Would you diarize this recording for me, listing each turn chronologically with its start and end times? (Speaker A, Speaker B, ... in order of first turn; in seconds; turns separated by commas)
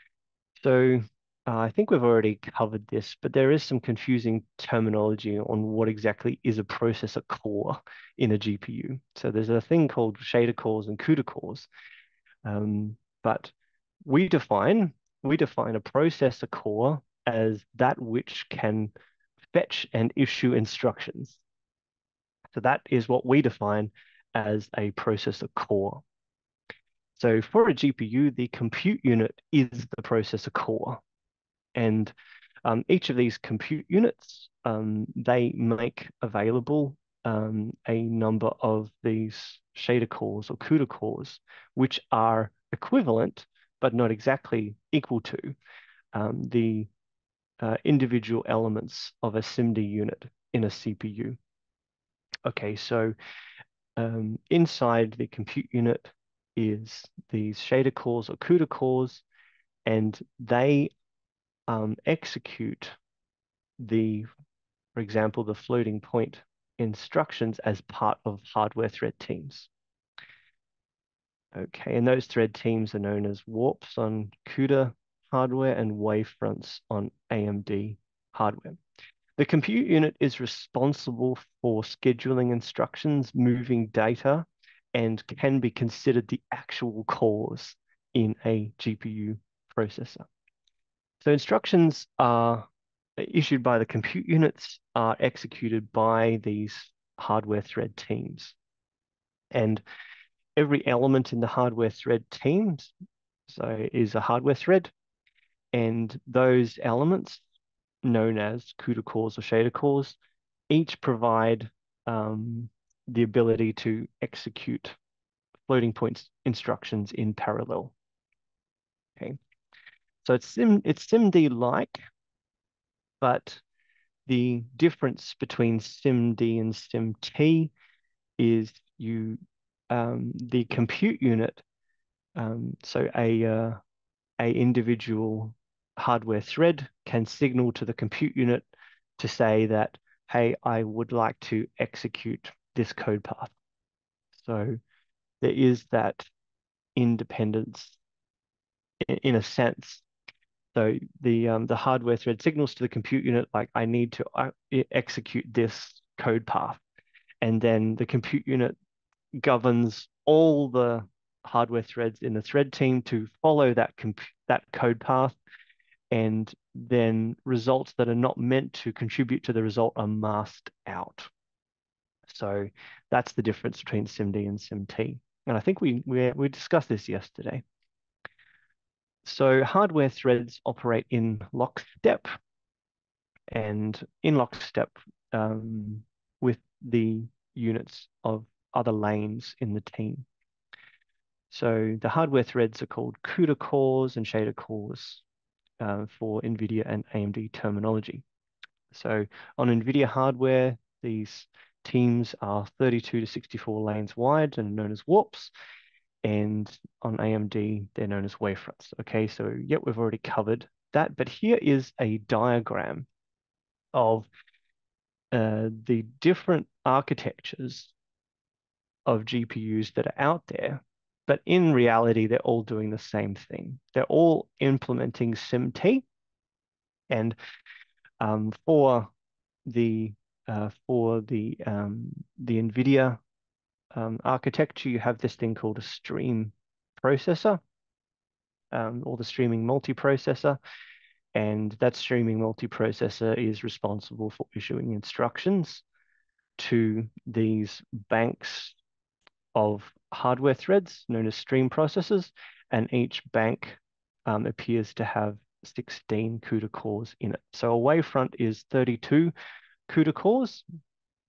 Speaker A: 0.6-11.7, Speaker A: 12.4-13.5, Speaker A: 14.1-18.9, Speaker A: 19.5-21.4, Speaker A: 22.5-26.0, Speaker A: 27.2-31.0, Speaker A: 31.8-32.1, Speaker A: 32.6-45.6, Speaker A: 46.1-46.9, Speaker A: 47.6-51.4, Speaker A: 52.5-53.1, Speaker A: 54.0-59.2, Speaker A: 59.9-60.9, Speaker A: 61.7-63.0, Speaker A: 63.8-64.3, Speaker A: 65.0-69.7, Speaker A: 71.5-78.8, Speaker A: 79.4-90.3, Speaker A: 91.2-92.7, Speaker A: 93.2-98.6, Speaker A: 99.5-99.8, Speaker A: 100.6-102.9, Speaker A: 103.5-104.9, Speaker A: 105.7-107.4, Speaker A: 108.0-110.2, Speaker A: 110.7-115.0, Speaker A: 115.7-117.9, Speaker A: 120.2-122.0, Speaker A: 123.2-123.6, Speaker A: 124.3-127.7, Speaker A: 128.4-131.6, Speaker A: 132.4-133.8, Speaker A: 134.4-143.5, Speaker A: 144.3-144.8, Speaker A: 145.4-146.3, Speaker A: 147.0-148.0, Speaker A: 149.0-150.1, Speaker A: 150.7-156.8, Speaker A: 157.4-158.8, Speaker A: 159.4-165.4, Speaker A: 166.1-171.3, Speaker A: 172.3-177.6, Speaker A: 179.2-182.3, Speaker A: 183.5-190.3, Speaker A: 191.5-195.2, Speaker A: 195.8-198.2, Speaker A: 198.9-205.5, Speaker A: 206.2-213.1, Speaker A: 213.9-214.3, Speaker A: 215.3-217.9, Speaker A: 219.1-226.1, Speaker A: 227.1-227.4, Speaker A: 228.2-229.1, Speaker A: 229.7-233.2, Speaker A: 233.9-237.6, Speaker A: 238.7-240.6, Speaker A: 241.3-245.8, Speaker A: 246.6-248.8, Speaker A: 249.5-259.3, Speaker A: 259.9-260.6